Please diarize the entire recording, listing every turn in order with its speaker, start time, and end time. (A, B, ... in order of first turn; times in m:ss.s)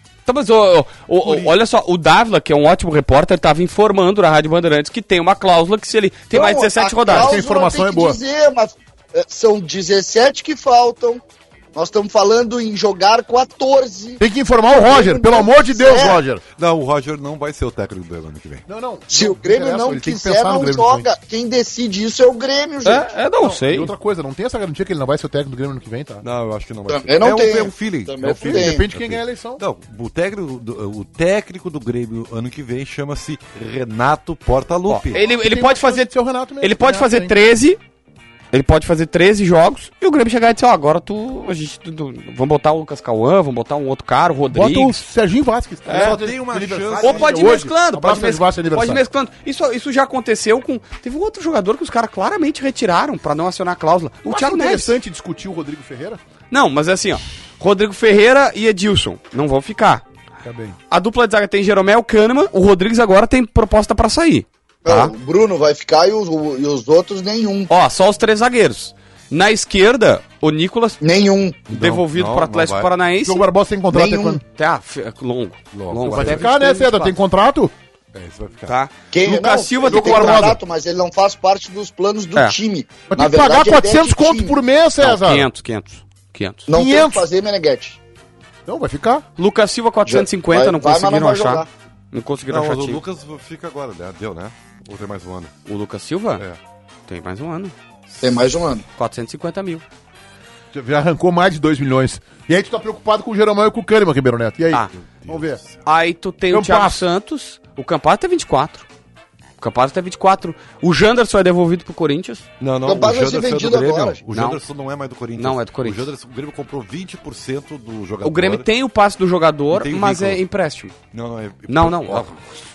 0:00.2-0:07.3 A
0:01.2-0:01.6 B
0:06.3-0:11.2 C
0:07.1-0:08.2 D
0:11.7-0:14.2 C
0:14.2-0:16.4 D
0:14.8-0:16.2 C
0:16.6-0:18.6 B
0:18.7-0:21.0 D
0:19.1-0:23.1 C
0:22.8-0:23.9 A
0:23.4-0:26.2 D
0:26.2-0:35.2 B
0:26.9-0:28.8 C
0:28.3-0:29.6 D
0:34.9-0:37.8 A
0:35.1-0:37.4 D
0:38.5-0:45.0 A
0:44.5-0:49.0 D
0:45.8-0:46.2 A
0:45.9-0:47.6 B
0:47.0-0:54.9 A
0:54.2-0:56.2 D
0:56.5-1:00.0 A
1:00.4-1:00.8 D
1:00.9-1:05.1 A
1:04.8-1:07.7 C
1:07.7-1:11.0 A
1:11.0-1:11.6 C
1:11.7-1:13.4 A
1:11.7-1:12.9 B
1:13.2-1:14.4 D
1:13.9-1:14.4 C
1:14.5-1:17.1 A
1:15.7-1:16.5 B
1:16.1-1:17.7 D
1:18.1-1:18.8 B
1:18.7-1:20.5 A
1:19.1-1:24.6 C
1:19.9-1:20.6 D
1:23.1-1:25.5 D
1:25.0-1:26.7 A
1:26.7-1:28.0 C
1:26.7-1:27.2 D
1:28.7-1:29.2 D
1:29.4-1:33.0 A
1:30.0-1:31.7 C
1:32.5-1:35.5 B
1:35.6-1:36.4 A
1:37.1-1:37.7 A
1:38.2-1:38.8 C
1:39.0-1:39.8 A
1:40.7-1:45.6 D
1:44.9-1:45.8 B
1:45.8-1:48.8 A
1:46.5-1:47.0 D
1:49.6-1:52.5 A
1:52.6-1:58.7 B
1:52.8-1:54.2 C
1:54.3-1:54.6 A
1:55.4-1:56.1 A
1:58.2-2:00.9 A
1:59.7-2:00.4 B
2:01.1-2:02.5 B
2:01.7-2:02.6 A